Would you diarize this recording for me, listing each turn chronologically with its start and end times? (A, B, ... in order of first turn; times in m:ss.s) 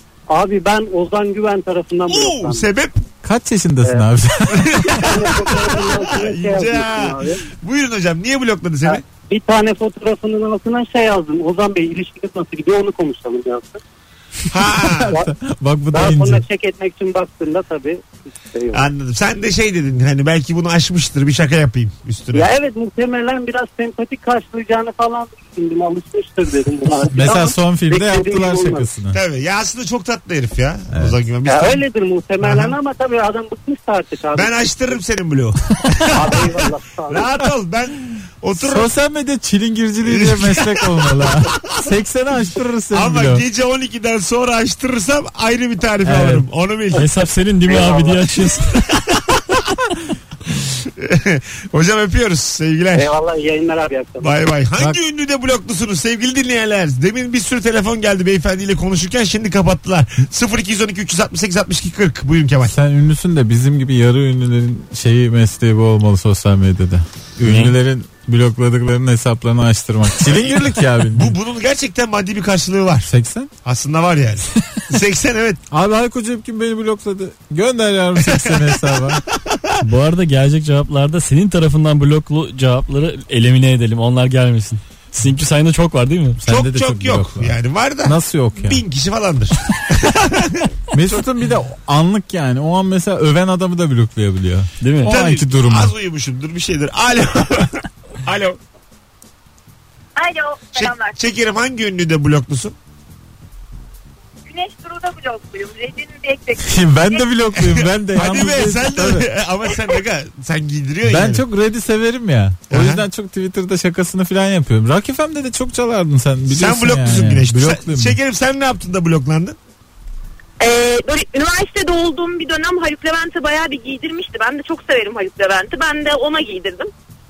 0:00.3-0:02.7 A
0:02.1-0:03.0 B
0:03.2-0:05.0 C
0:04.5-0:09.0 B
0:04.8-0:07.4 A
0:08.8-0:13.8 A
0:14.5-0:15.2 B
0:14.9-0:16.4 C
0:15.9-0:18.9 A
0:18.7-0:22.5 B
0:22.3-0:28.9 A
0:27.1-0:29.2 C
0:29.1-0:31.8 B
0:30.9-0:31.2 C
0:31.4-0:35.0 A
0:32.4-0:32.7 B
0:34.3-0:36.6 B
0:36.1-0:37.3 A
0:37.1-0:38.9 B
0:38.6-0:43.4 C
0:40.0-0:41.6 B
0:42.9-0:47.1 B
0:46.2-0:46.4 C
0:46.9-0:48.8 D
0:47.7-0:48.1 A
0:49.0-0:49.6 B
0:50.6-0:53.1 B
0:53.0-0:54.3 A
0:54.2-1:02.8 B
1:02.7-1:11.4 C
1:07.4-1:07.7 D
1:10.2-1:13.1 B
1:13.1-1:13.5 C
1:13.6-1:15.6 B
1:15.7-1:19.2 C
1:18.2-1:19.8 B
1:19.8-1:26.4 D
1:26.4-1:28.8 C
1:26.5-1:30.7 B
1:30.9-1:35.9 C
1:34.8-1:35.2 D
1:35.0-1:38.6 B
1:40.2-1:41.2 E
1:40.8-1:42.8 B
1:44.5-1:47.2 E
1:46.6-1:49.3 C
1:47.8-1:51.4 B
1:51.1-1:58.2 C
1:52.7-1:53.0 B
1:56.5-1:59.6 B
2:00.6-2:06.9 E